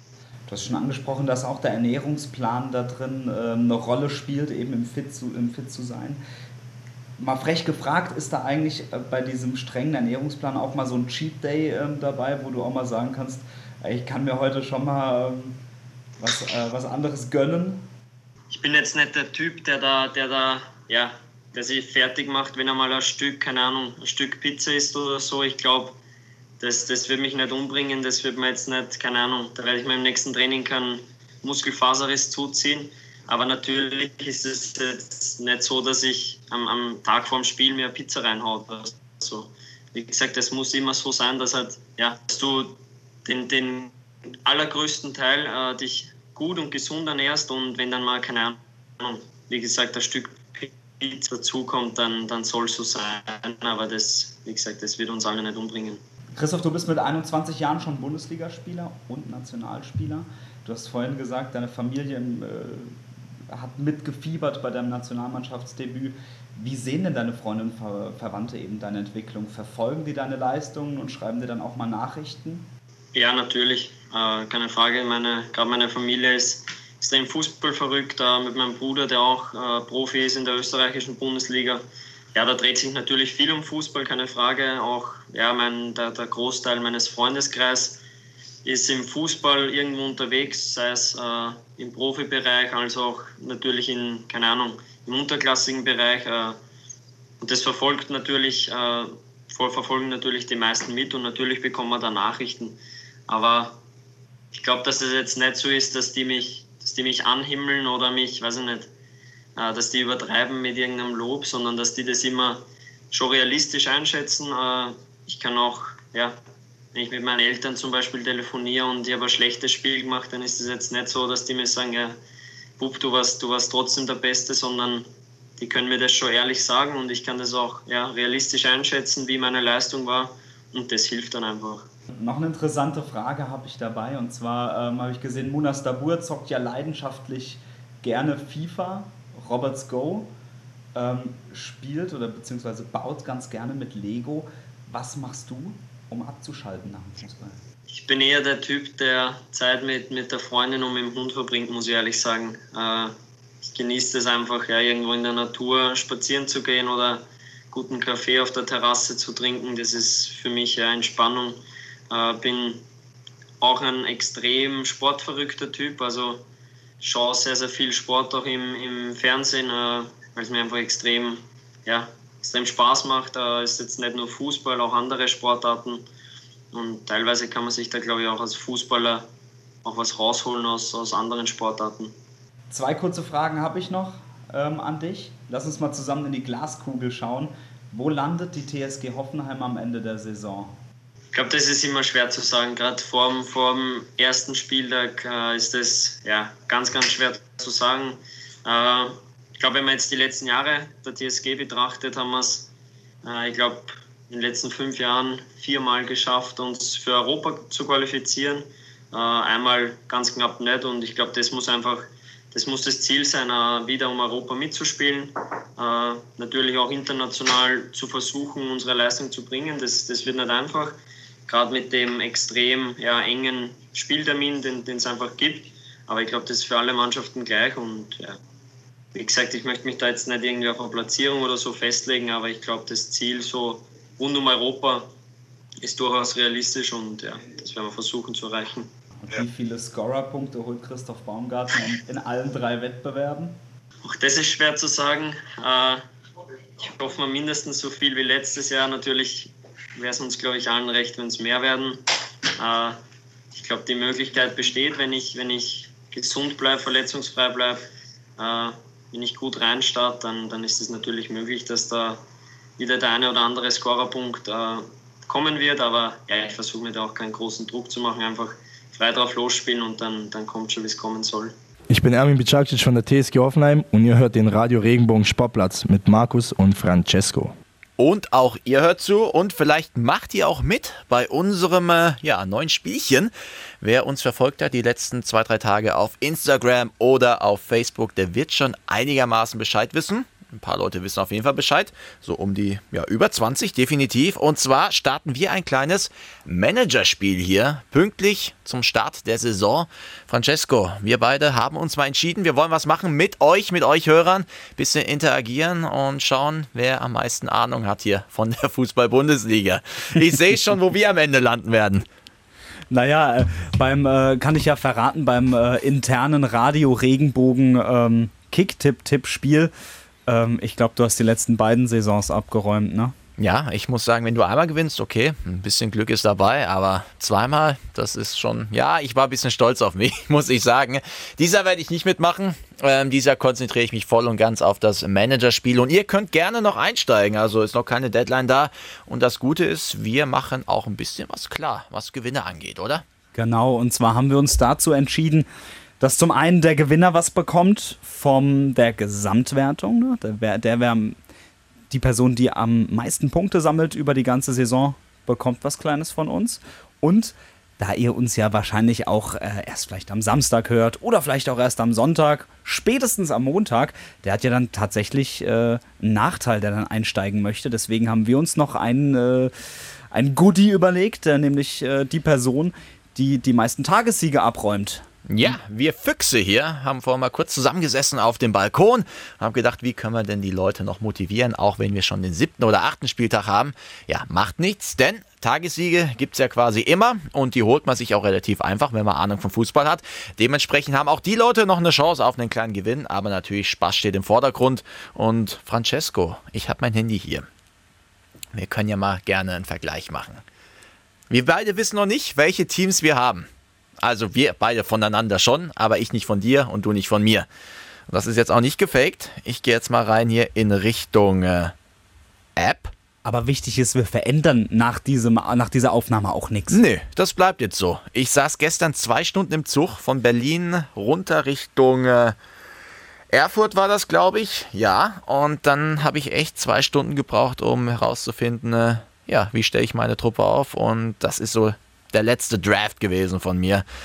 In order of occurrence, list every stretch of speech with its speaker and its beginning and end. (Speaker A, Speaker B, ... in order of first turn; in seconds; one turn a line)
Speaker A: 0.5-6.2
Speaker A: 7.2-15.6
Speaker A: 16.2-17.9
Speaker B: 18.5-26.0
Speaker B: 26.6-43.9
Speaker B: 44.5-56.0
Speaker A: 56.4-63.0
Speaker A: 63.5-72.7
Speaker B: 73.1-88.0
Speaker B: 88.7-96.6
Speaker B: 97.4-102.8
Speaker B: 103.3-103.8
Speaker B: 104.5-108.9
Speaker B: 109.6-116.4
Speaker B: 116.9-122.2
Speaker B: 122.8-131.9
Speaker A: 132.2-140.3
Speaker A: 140.9-147.6
Speaker B: 147.9-162.8
Speaker B: 163.6-166.4
Speaker B: 167.0-176.1
Speaker B: 176.7-179.3
Speaker B: 179.8-182.1
Speaker A: 182.7-190.8
Speaker B: 191.3-202.7
Speaker B: 203.2-228.4
Speaker B: 229.1-235.1
Speaker B: 235.8-238.9
Speaker A: 239.2-243.6
Speaker B: 244.0-246.0
Speaker B: 246.8-252.0
Speaker B: 252.6-253.0
Speaker B: 253.5-257.9
Speaker B: 258.4-262.2
Speaker B: 262.8-271.5
Speaker C: 271.9-277.5
Speaker D: 278.0-312.1
Speaker A: 312.9-319.7
Speaker A: 320.3-323.1
Speaker D: 323.4-343.0
Speaker A: 343.3-345.5
Speaker A: 346.0-351.2
Speaker A: 351.9-369.5
Speaker A: 370.1-375.6
Speaker D: 375.3-397.5
Speaker D: 398.5-400.4
Speaker D: 401.3-403.5
Speaker D: 404.0-407.5
Speaker D: 408.1-411.7
Speaker D: 412.6-412.9
Speaker A: 413.2-416.8
Speaker D: 416.7-422.4
Speaker D: 423.3-433.9